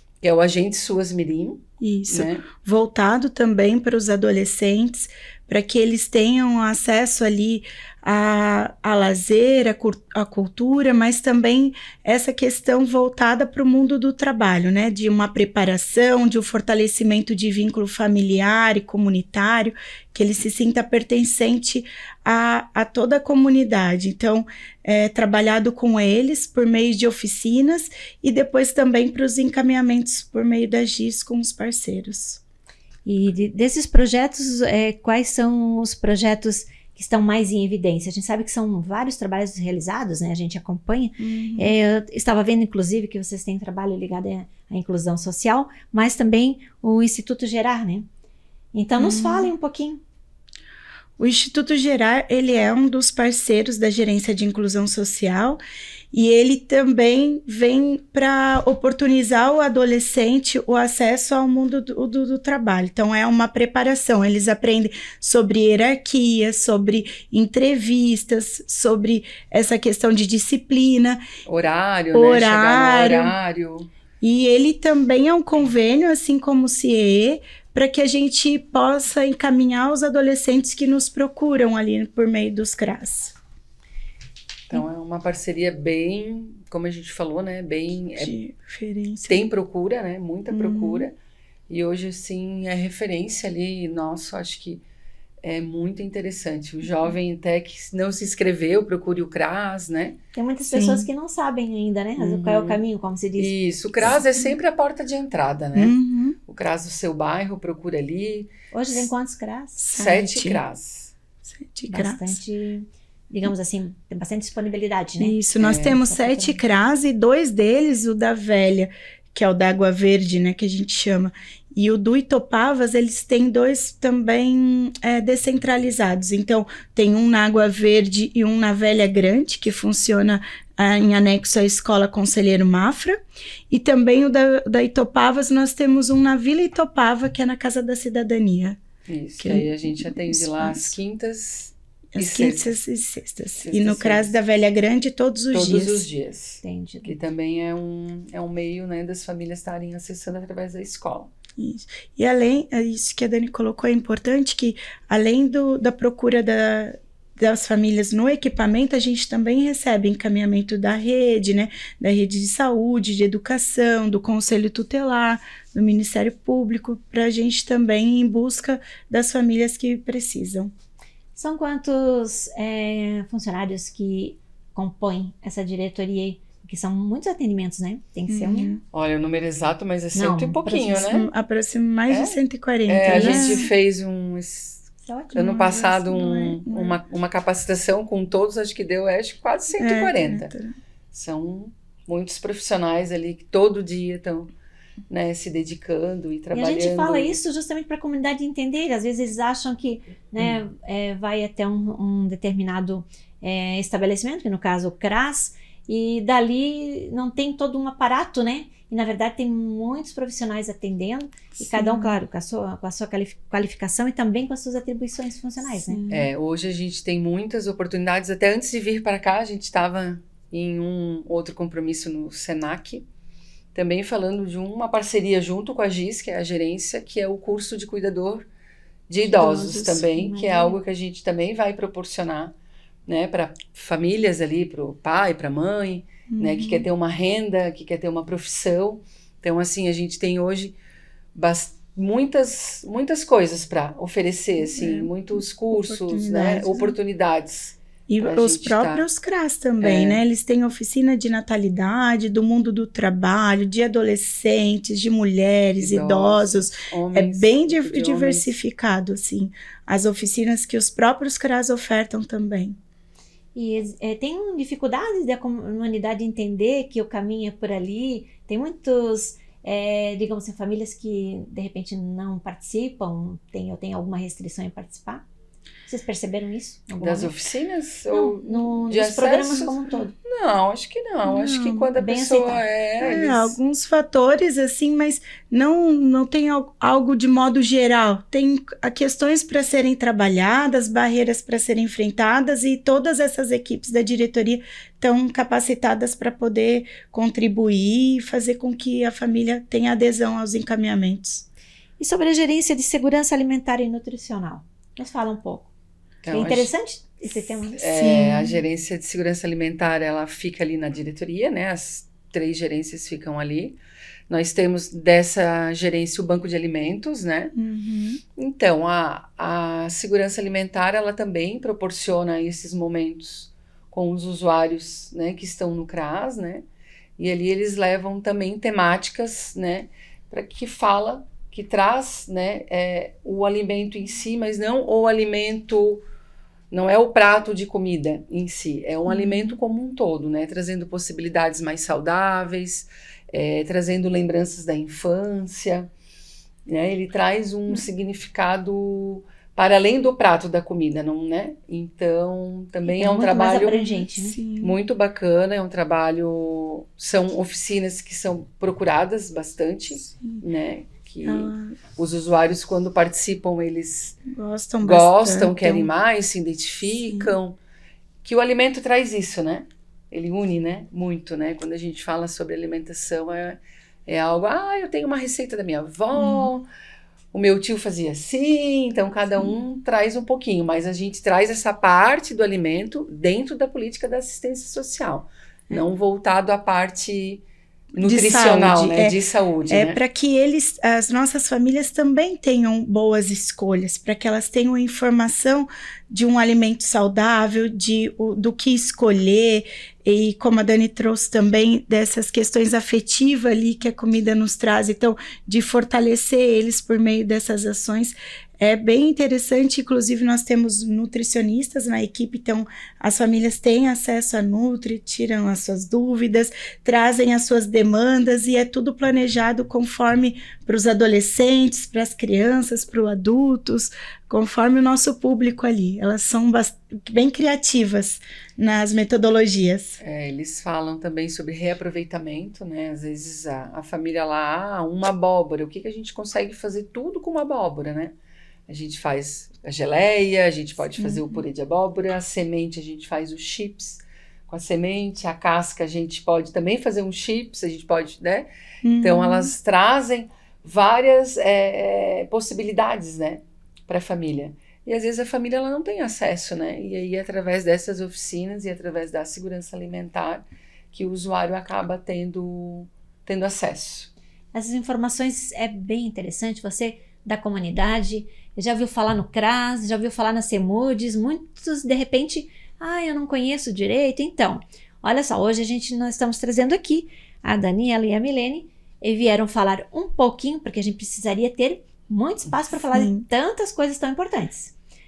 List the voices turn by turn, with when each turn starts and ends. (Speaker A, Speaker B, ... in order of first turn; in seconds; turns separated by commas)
Speaker A: 0.2-2.4, Speaker B: 1.8-32.4, Speaker C: 33.1-48.1, Speaker B: 41.2-41.7, Speaker C: 48.7-50.0, Speaker B: 49.0-49.5, Speaker B: 51.2-55.6, Speaker B: 56.1-71.2, Speaker A: 71.5-73.9, Speaker B: 72.1-73.3, Speaker B: 74.2-83.3, Speaker A: 84.7-88.3, Speaker B: 88.2-89.5, Speaker A: 89.3-91.2, Speaker B: 90.5-91.1, Speaker A: 91.7-94.8, Speaker A: 95.4-100.2, Speaker C: 100.3-103.5, Speaker B: 100.7-101.1, Speaker A: 102.2-102.8, Speaker A: 103.4-108.5, Speaker B: 104.0-104.5, Speaker B: 105.8-106.4, Speaker C: 108.7-110.0, Speaker B: 109.8-110.6, Speaker A: 109.9-111.1, Speaker B: 111.5-112.4, Speaker C: 111.9-116.6, Speaker B: 115.2-133.2, Speaker A: 115.6-116.0, Speaker B: 133.7-138.8, Speaker A: 139.1-142.8, Speaker B: 139.4-141.0, Speaker B: 142.1-146.1, Speaker A: 143.6-144.3, Speaker A: 145.5-151.3, Speaker C: 146.6-147.1, Speaker B: 151.6-170.7, Speaker C: 171.4-178.7, Speaker B: 178.3-178.8, Speaker A: 178.9-181.3, Speaker C: 180.2-181.2, Speaker B: 181.0-183.7, Speaker A: 182.1-190.5, Speaker C: 183.1-183.7, Speaker C: 185.1-185.4, Speaker B: 185.3-187.0, Speaker B: 189.8-190.7, Speaker A: 191.1-194.5, Speaker A: 195.1-197.4, Speaker C: 196.5-216.0, Speaker B: 211.6-212.2, Speaker B: 215.9-216.3, Speaker A: 216.1-223.1, Speaker A: 223.8-228.5, Speaker A: 229.1-232.5, Speaker C: 229.3-230.8, Speaker A: 233.1-240.8, Speaker B: 236.3-236.9, Speaker A: 241.3-249.1, Speaker B: 244.6-247.0, Speaker B: 248.1-262.8, Speaker A: 249.8-250.2, Speaker A: 255.8-258.5, Speaker C: 263.6-275.2, Speaker C: 275.9-277.4, Speaker A: 277.0-283.6, Speaker C: 278.1-280.1, Speaker B: 281.2-281.9, Speaker C: 281.9-282.6, Speaker B: 283.0-301.5, Speaker C: 302.0-305.7, Speaker A: 306.2-306.7, Speaker C: 306.3-308.0, Speaker A: 307.8-313.8, Speaker B: 307.9-308.6, Speaker A: 314.3-317.6, Speaker B: 317.6-318.2, Speaker A: 318.4-326.6, Speaker A: 327.2-336.0, Speaker A: 336.7-345.9, Speaker B: 339.1-339.5, Speaker A: 346.7-353.9, Speaker C: 352.9-354.4, Speaker B: 354.0-354.8, Speaker A: 354.6-364.2, Speaker B: 361.2-361.8, Speaker B: 364.3-365.9, Speaker A: 364.8-367.6, Speaker B: 367.0-367.4, Speaker A: 368.2-376.7, Speaker B: 376.2-376.5, Speaker A: 377.3-387.4, Speaker B: 387.9-389.2, Speaker A: 388.0-390.0, Speaker B: 389.7-430.0, Speaker A: 430.0-438.1, Speaker A: 438.7-464.1, Speaker B: 441.0-441.4, Speaker B: 448.8-449.5, Speaker C: 464.5-484.7, Speaker B: 482.9-483.2